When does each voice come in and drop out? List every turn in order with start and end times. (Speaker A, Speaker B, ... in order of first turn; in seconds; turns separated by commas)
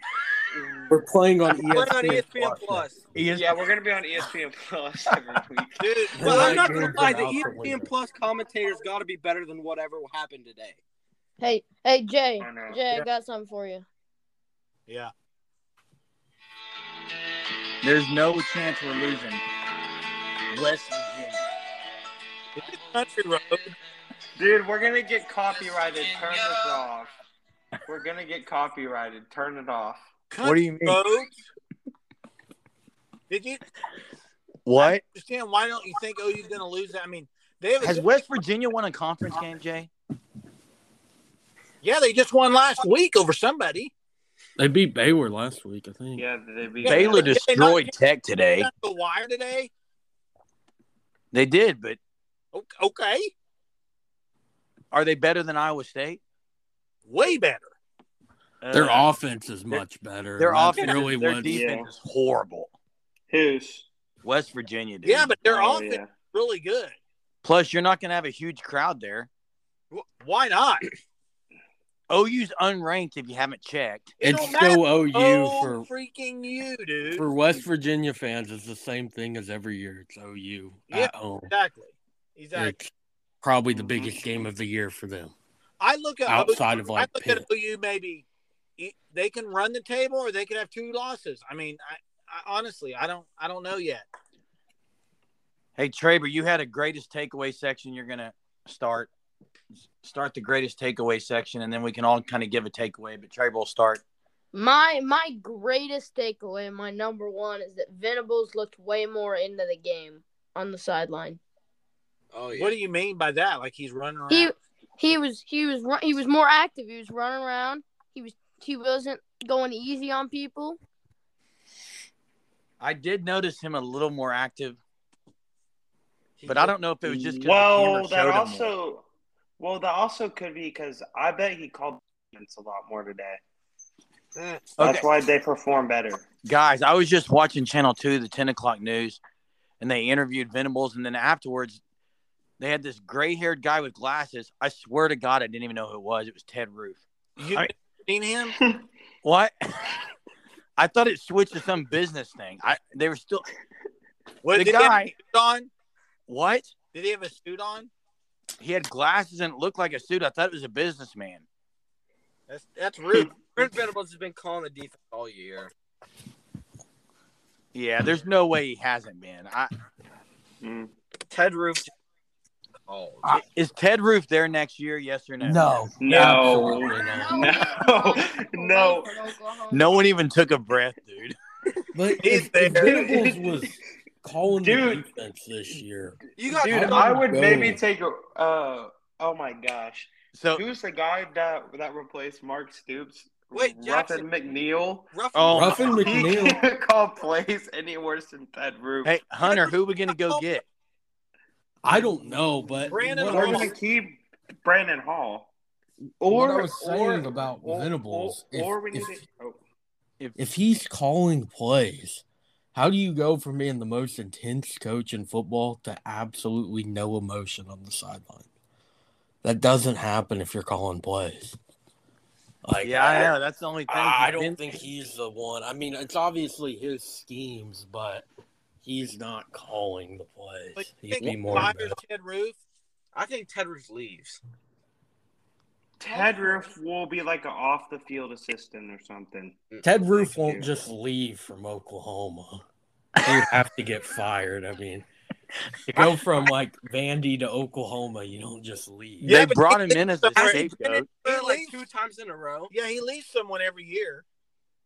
Speaker A: 0.5-1.1, Speaker B: 0.9-3.6, Speaker C: 1.6-3.0, Speaker A: 3.3-6.6, Speaker D: 5.8-6.9, Speaker B: 6.1-7.9, Speaker C: 6.2-10.8, Speaker E: 11.4-13.8, Speaker A: 12.4-12.8, Speaker D: 14.9-15.1, Speaker F: 17.8-19.4, Speaker F: 20.5-21.4, Speaker D: 22.6-23.7, Speaker A: 24.4-27.1, Speaker A: 27.9-30.1, Speaker D: 30.3-31.4, Speaker F: 30.4-31.0, Speaker D: 33.3-33.6, Speaker F: 34.7-35.0, Speaker D: 34.8-38.1, Speaker F: 37.8-39.9, Speaker D: 41.8-43.9, Speaker B: 44.6-46.2, Speaker A: 46.2-47.3, Speaker D: 46.8-47.9, Speaker F: 46.9-48.7, Speaker D: 48.6-49.7, Speaker F: 51.3-52.0, Speaker D: 52.5-53.3, Speaker F: 54.9-56.2, Speaker D: 57.1-57.7, Speaker F: 58.6-59.0, Speaker D: 58.7-59.0, Speaker B: 58.7-61.6, Speaker F: 60.4-62.7, Speaker D: 60.7-61.0, Speaker A: 61.4-61.9, Speaker A: 63.3-63.9, Speaker F: 64.2-65.3, Speaker D: 65.0-67.0, Speaker A: 65.4-66.1, Speaker F: 67.4-69.3, Speaker D: 70.2-70.8, Speaker F: 72.1-74.2, Speaker D: 74.2-77.3, Speaker B: 74.2-75.9, Speaker B: 77.2-81.5, Speaker D: 80.9-82.7, Speaker B: 82.5-85.3, Speaker D: 85.8-88.2, Speaker B: 86.3-87.5, Speaker D: 88.8-94.0, Speaker F: 95.8-99.1, Speaker F: 100.0-104.0, Speaker E: 104.5-111.4, Speaker C: 112.3-112.8, Speaker D: 112.5-114.5, Speaker E: 114.3-120.8, Speaker F: 122.8-124.8, Speaker C: 126.4-126.7, Speaker F: 126.5-128.7, Speaker A: 127.0-129.1, Speaker A: 129.6-133.4, Speaker C: 134.4-134.7, Speaker F: 134.8-135.1, Speaker A: 134.8-136.2, Speaker F: 136.4-139.2, Speaker F: 139.8-141.8, Speaker F: 142.6-147.7, Speaker D: 147.4-148.6, Speaker F: 149.2-149.9, Speaker F: 150.8-153.5, Speaker D: 154.4-155.7, Speaker F: 154.6-155.1, Speaker F: 156.3-156.7, Speaker D: 156.9-157.9, Speaker F: 158.6-161.4, Speaker D: 162.5-163.4, Speaker C: 163.5-165.7, Speaker F: 167.7-169.7, Speaker A: 170.6-170.9, Speaker C: 171.3-171.9, Speaker C: 172.9-173.4, Speaker F: 173.2-175.8, Speaker B: 175.4-177.6, Speaker A: 176.0-179.2, Speaker E: 176.9-179.9, Speaker F: 179.7-181.4, Speaker B: 181.9-187.8, Speaker D: 182.2-183.0, Speaker A: 182.6-183.8, Speaker A: 184.6-185.1, Speaker C: 186.4-187.2, Speaker A: 186.4-195.1, Speaker F: 190.3-190.6, Speaker C: 193.5-194.3, Speaker C: 195.1-196.4, Speaker F: 195.3-196.1, Speaker B: 195.5-196.6, Speaker A: 195.8-199.2, Speaker F: 199.0-200.7, Speaker B: 201.8-203.7, Speaker D: 202.9-203.7, Speaker A: 203.2-205.5, Speaker A: 206.2-209.6, Speaker B: 206.3-209.2, Speaker B: 210.4-218.5, Speaker B: 219.4-221.6, Speaker B: 222.7-223.3, Speaker F: 222.8-224.7, Speaker B: 223.9-228.3, Speaker B: 228.8-232.0, Speaker D: 230.8-232.6, Speaker C: 233.1-234.4, Speaker A: 236.0-239.6, Speaker B: 239.8-242.6, Speaker A: 240.1-240.7, Speaker F: 243.2-243.5, Speaker B: 243.2-245.1, Speaker B: 245.9-249.3, Speaker F: 249.2-251.1, Speaker D: 249.2-251.8, Speaker C: 250.4-252.7, Speaker D: 252.7-254.2